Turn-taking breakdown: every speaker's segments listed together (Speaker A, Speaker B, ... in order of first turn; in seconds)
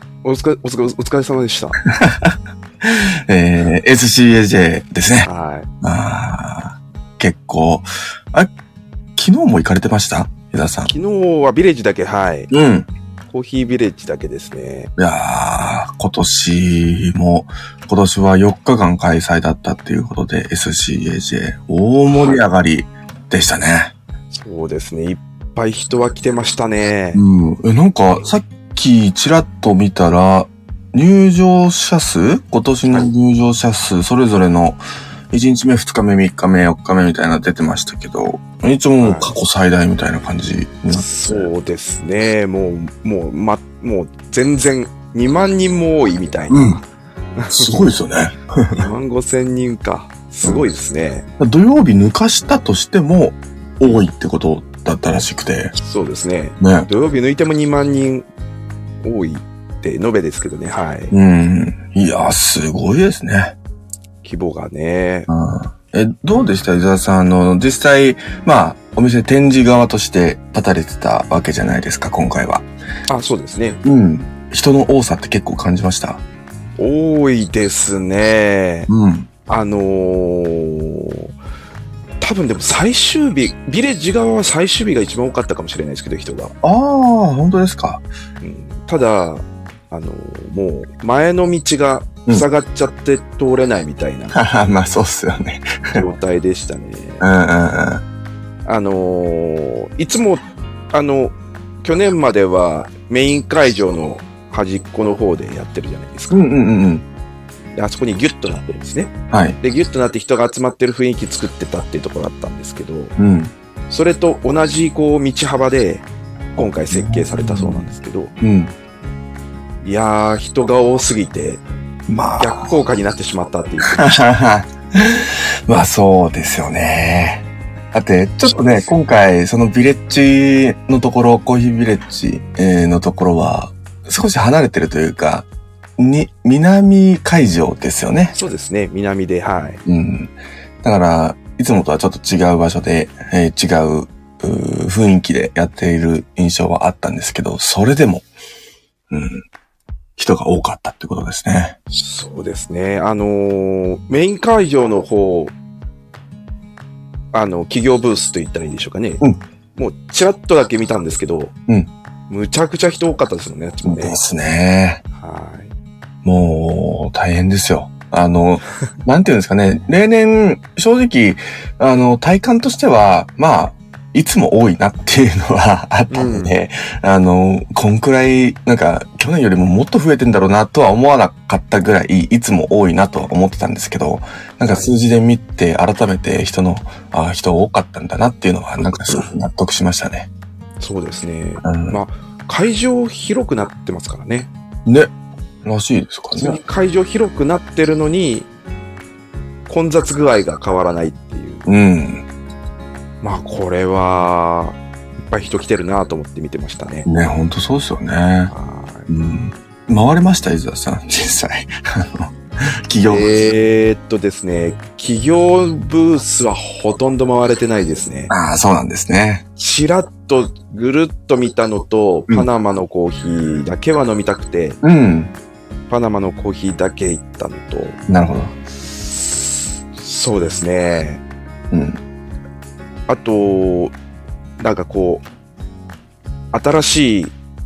Speaker A: 0.2-1.8, 5.2-5.7, 10.9-12.5, 13.3-14.9, 22.1-22.4, 24.3-27.2, 39.0-39.3, 40.9-46.8, 47.4-47.9, 48.7-51.3, 55.8-58.3, 59.0-61.1, 64.2-65.3, 73.1-73.8, 76.8-78.9, 79.5-81.3, 82.2-86.5, 88.4-94.4, 95.9-97.3, 98.7-106.4, 107.8-113.1, 113.9-118.3, 119.8-121.6, 122.4-124.1, 128.4-129.0, 138.3-139.8, 151.9-155.5, 157.3-159.2, 159.8-161.5, 162.3-164.2, 165.1-165.7, 176.1-176.6, 184.7-184.9, 188.9-189.3, 190.8-194.5, 196.3-198.5, 199.7-201.7, 203.2-207.1, 208.5-209.1, 213.1-218.3, 219.6-224.8, 225.9-228.0, 228.9-231.2, 233.1-233.9, 234.6-235.2, 236.5-237.4
Speaker B: 1.9-5.3, 5.8-8.5, 9.2-10.9, 12.5-12.9, 15.0-23.9, 27.1-41.5, 46.5-46.8, 47.5-48.8, 51.4-55.7, 56.6-56.9, 61.1-63.6, 65.3-72.7, 73.8-76.2, 78.9-79.3, 86.6-88.1, 94.3-96.0, 97.2-98.0, 106.3-107.0, 109.3-109.6, 113.2-113.5, 116.6-117.8, 118.4-118.7, 122.1-122.7, 123.9-135.5, 136.0-138.4, 139.9-148.3, 149.1-149.4, 150.2-151.8, 163.8-165.0, 166.2-190.3, 191.6-192.0, 194.9-195.1, 195.6-196.6, 201.7-202.2, 207.1-208.5, 209.1-212.3, 212.9-213.3, 218.3-219.4, 224.8-225.3, 228.1-228.5, 231.7-232.0